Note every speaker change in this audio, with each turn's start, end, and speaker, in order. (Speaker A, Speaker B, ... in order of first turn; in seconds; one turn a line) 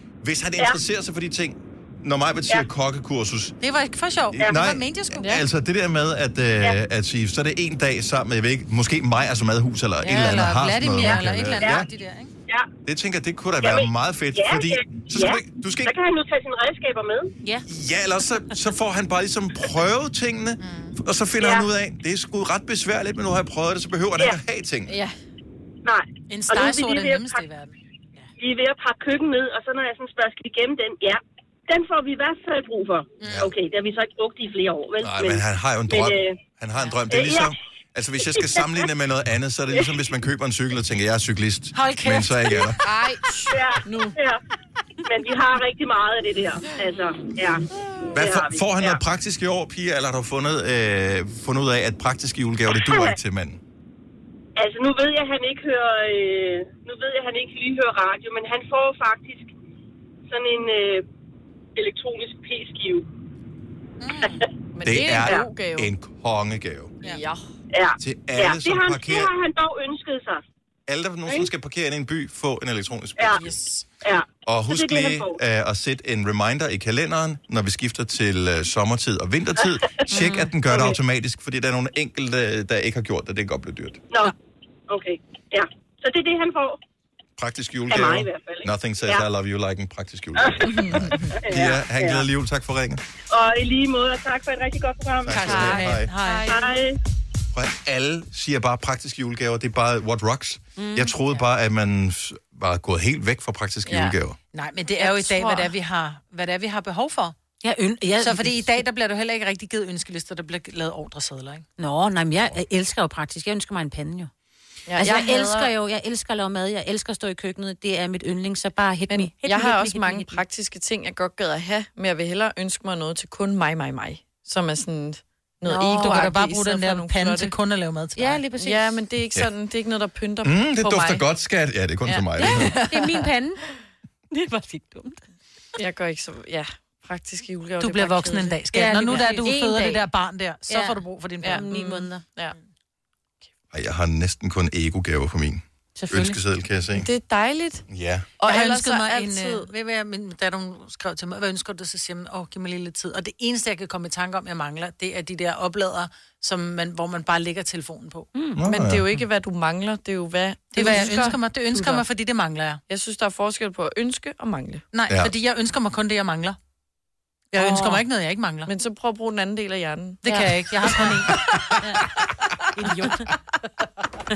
Speaker A: 0.2-3.6
Speaker B: 3.6-5.3
Speaker A: 4.3-11.9
Speaker B: 10.0-12.3
Speaker A: 12.8-15.9
Speaker C: 13.6-17.4
Speaker A: 17.7-25.0
Speaker B: 20.6-21.0
Speaker C: 21.4-21.7
Speaker D: 24.9-25.1
Speaker C: 25.9-27.5
Speaker B: 26.3-28.3
Speaker C: 28.4-36.4
Speaker B: 33.2-33.5
Speaker A: 35.0-42.8
Speaker C: 37.1-37.5
Speaker C: 38.3-38.8
Speaker B: 41.7-42.8
Speaker D: 42.8-44.1
Speaker C: 43.5-44.4
Speaker C: 45.1-47.6
Speaker A: 48.1-53.6
Speaker C: 48.1-49.0
Speaker C: 52.8-53.1
Speaker C: 54.6-59.5
Speaker C: 60.3-61.0
Speaker C: 61.8-63.1
Speaker B: 64.0-64.4
Speaker D: 64.7-65.9
Speaker A: 64.8-67.0
Speaker D: 67.0-67.4
Speaker C: 67.7-70.4
Speaker A: 68.0-69.3
Speaker A: 70.9-73.4
Speaker B: 73.4-73.8
Speaker C: 74.0-75.4
Speaker A: 74.5-84.0
Speaker B: 80.1-80.5
Speaker D: 80.7-81.0
Speaker C: 84.9-86.8
Speaker A: 87.4-93.0
Speaker C: 87.9-89.2
Speaker D: 90.7-91.4
Speaker C: 91.4-92.2
Speaker C: 93.3-95.5
Speaker A: 95.2-96.1
Speaker B: 95.3-96.6
Speaker D: 96.3-96.6
Speaker C: 96.5-97.0
Speaker A: 97.5-104.4
Speaker E: 100.8-101.2
Speaker D: 103.9-104.2
Speaker B: 104.5-107.3
Speaker D: 105.0-105.7
Speaker E: 107.6-108.8
Speaker B: 108.2-111.7
Speaker E: 111.8-114.3
Speaker D: 114.9-115.7
Speaker E: 114.9-120.4
Speaker D: 119.1-127.5
Speaker E: 125.7-126.1
Speaker B: 125.8-128.4
Speaker E: 128.2-129.0
Speaker D: 128.6-131.2
Speaker A: 130.4-132.8
Speaker D: 132.1-133.3
Speaker E: 132.4-133.6
Speaker E: 134.3-135.2
Speaker D: 135.8-139.5
Speaker B: 137.8-141.7
Speaker E: 138.7-140.1
Speaker E: 140.7-142.2
Speaker D: 141.4-142.6
Speaker A: 143.7-147.1
Speaker E: 145.9-146.4
Speaker D: 146.9-147.8
Speaker A: 147.9-148.3
Speaker D: 148.4-149.7
Speaker B: 148.4-158.3
Speaker E: 158.3-158.6
Speaker A: 158.6-159.0
Speaker D: 158.6-162.1
Speaker B: 160.7-162.8
Speaker D: 162.9-164.8
Speaker B: 164.9-166.6
Speaker B: 167.5-168.7
Speaker E: 167.6-168.0
Speaker D: 168.7-170.3
Speaker B: 170.2-171.3
Speaker E: 172.9-173.2